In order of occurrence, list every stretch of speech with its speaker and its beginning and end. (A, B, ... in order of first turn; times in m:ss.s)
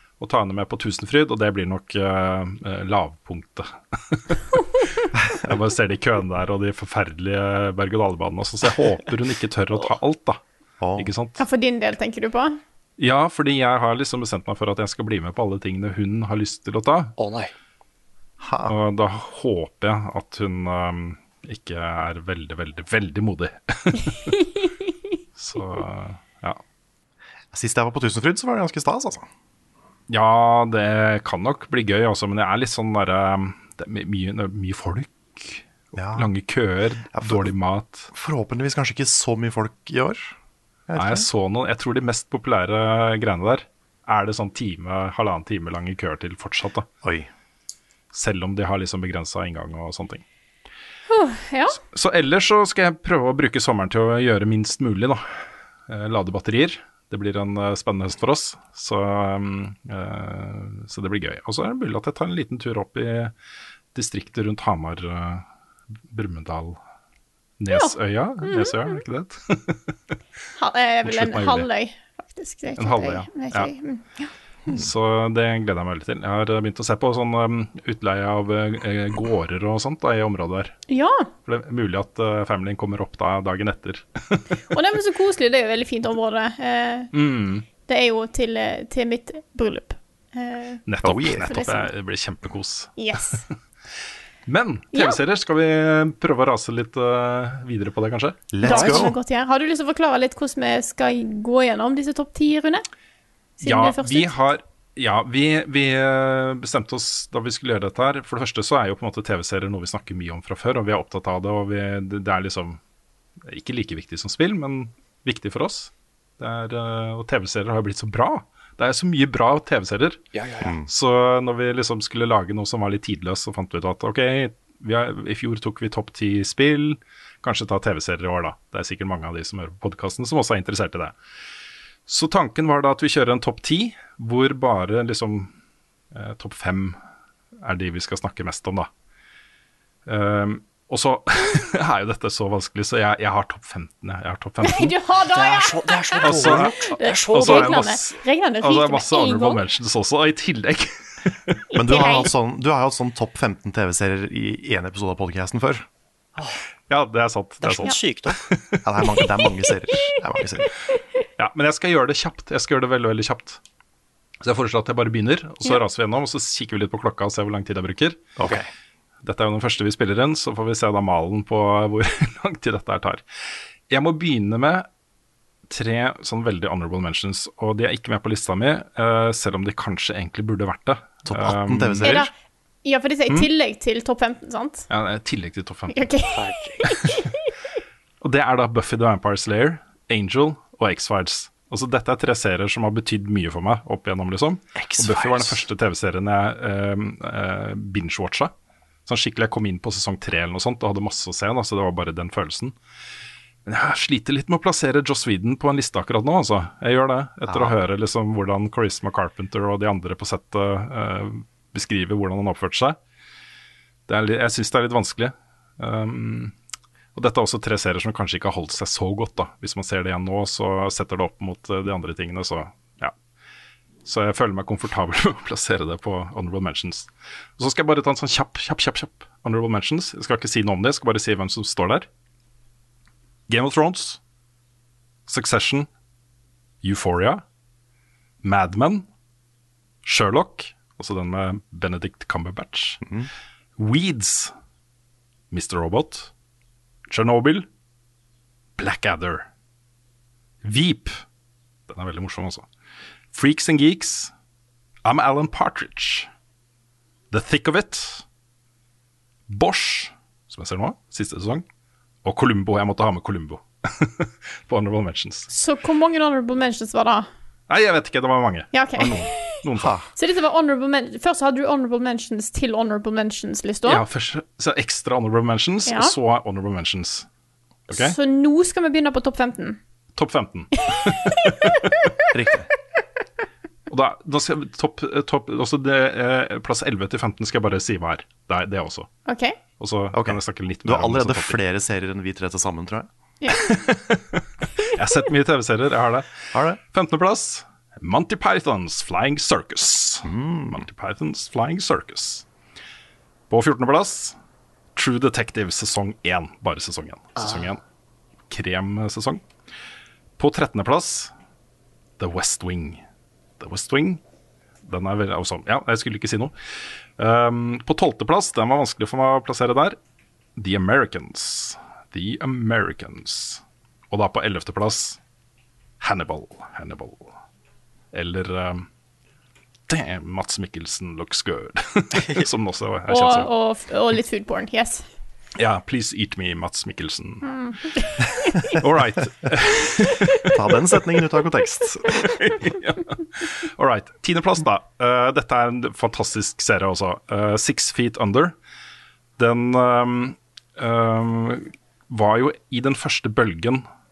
0:00.2-0:10.4 A
0:10.8-0:11.1 B
0:11.0-0:11.4 A
0:11.4-0:12.6 C
0:13.0-0:17.1 A
0:17.2-0:17.5 D
0:18.4-0:18.8 B
0:18.7-0:24.4 A
0:25.4-0:26.6 A
0:27.5-0:29.3 B
0:30.1-0:38.1 A
0:35.9-0:36.3 B
0:37.1-0:37.5 B
0:38.1-0:40.4 B
0:40.9-0:41.3 B
0:41.0-0:46.9 A
0:47.0-0:47.3 B
0:48.1-0:50.2 A
0:51.1-0:51.8 C
0:51.8-1:03.3 A
1:03.9-1:05.4 A
1:06.1-1:06.8 A
1:07.6-1:10.0 A
1:07.7-1:08.9 C
1:10.6-1:14.3 C
1:11.0-1:11.7 A
1:12.8-1:13.7 A
1:14.7-1:20.8 A
1:20.9-1:21.3 C
1:21.5-1:24.5 A
1:24.7-1:27.1 C
1:27.1-1:27.7 A
1:27.9-1:30.8 C
1:30.9-1:33.0 A
1:31.0-1:31.6 B
1:31.4-1:31.9 C
1:33.0-1:33.4 C
1:34.5-1:39.0 A
1:38.5-1:39.2 B
1:38.6-1:42.8 C
1:43.6-1:52.8 A
1:43.6-1:44.3 C
1:53.5-2:00.3 A
2:00.3-2:00.8 D
2:00.6-2:00.9 B
2:00.9-2:11.2 A
2:12.1-2:15.5 A
2:16.1-2:17.0 A
2:17.6-2:18.9 A
2:20.1-2:25.0 A
2:24.6-2:29.6 C
2:25.3-2:27.9 D
2:26.2-2:31.6 A
2:31.7-2:32.3 C
2:31.7-2:35.9 B
2:36.9-2:38.8 A
2:37.6-2:38.4 D
2:38.8-2:40.7 B
2:41.4-2:43.6 A
2:44.4-2:48.3 A
2:48.4-2:48.6 B
2:49.2-2:53.2 A
2:53.9-2:54.9 A
2:55.7-3:02.3 A
3:01.3-3:02.3 B
3:02.0-3:02.3 C
3:02.8-3:04.9 C
3:04.9-3:06.1 A
3:05.9-3:07.2 C
3:06.3-3:07.2 D
3:08.2-3:18.5 A
3:14.8-3:15.6 D
3:19.1-3:22.8 A
3:23.7-3:33.0 A
3:27.5-3:27.8 B
3:34.1-3:36.5 A
3:37.2-3:43.1 A
3:44.0-3:52.1 A
3:53.5-3:54.2 A
3:55.3-3:55.9 A
3:56.8-3:57.4 A
3:58.4-3:59.1 A
4:00.0-4:03.1 A
4:03.0-4:03.3 B
4:03.8-4:04.5 A
4:05.5-4:06.3 A
4:07.1-4:07.7 A
4:08.8-4:09.5 A
4:10.6-4:11.2 A
4:11.9-4:12.7 A
4:13.3-4:14.3 A
4:15.0-4:16.3 A
4:17.3-4:18.2 A
4:19.5-4:21.6 A
4:22.2-4:25.5 A
4:25.5-4:27.3 C
4:27.7-4:30.0 A
4:28.7-4:29.6 C
4:29.8-4:30.1 B
4:30.2-4:34.0 C
4:33.9-4:37.3 A
4:35.9-4:36.1 C
4:37.9-4:38.2 A
4:37.9-4:39.8 C
4:40.2-4:42.1 A
4:42.3-4:42.7 B
4:43.9-4:49.1 A
4:49.3-4:49.6 C
4:49.8-4:51.6 A
4:50.1-4:53.1 B
4:53.4-4:53.7 C
4:53.5-5:02.4 A
4:56.5-4:56.8 B
5:00.2-5:00.8 B
5:03.5-5:04.4 A
5:05.0-5:07.8 A
5:08.5-5:09.4 A
5:10.4-5:11.3 A
5:12.2-5:13.0 A
5:13.6-5:14.2 A
5:14.9-5:16.5 A
5:17.2-5:20.0 A
5:20.6-5:25.2 A
5:26.0-5:27.3 A
5:28.1-5:28.9 A
5:29.9-5:33.5 A
5:33.1-5:35.1 C
5:35.6-5:37.5 A
5:37.4-5:38.6 C
5:38.6-5:40.5 A
5:40.5-5:42.2 B
5:42.4-5:48.6 A
5:49.4-5:53.9 A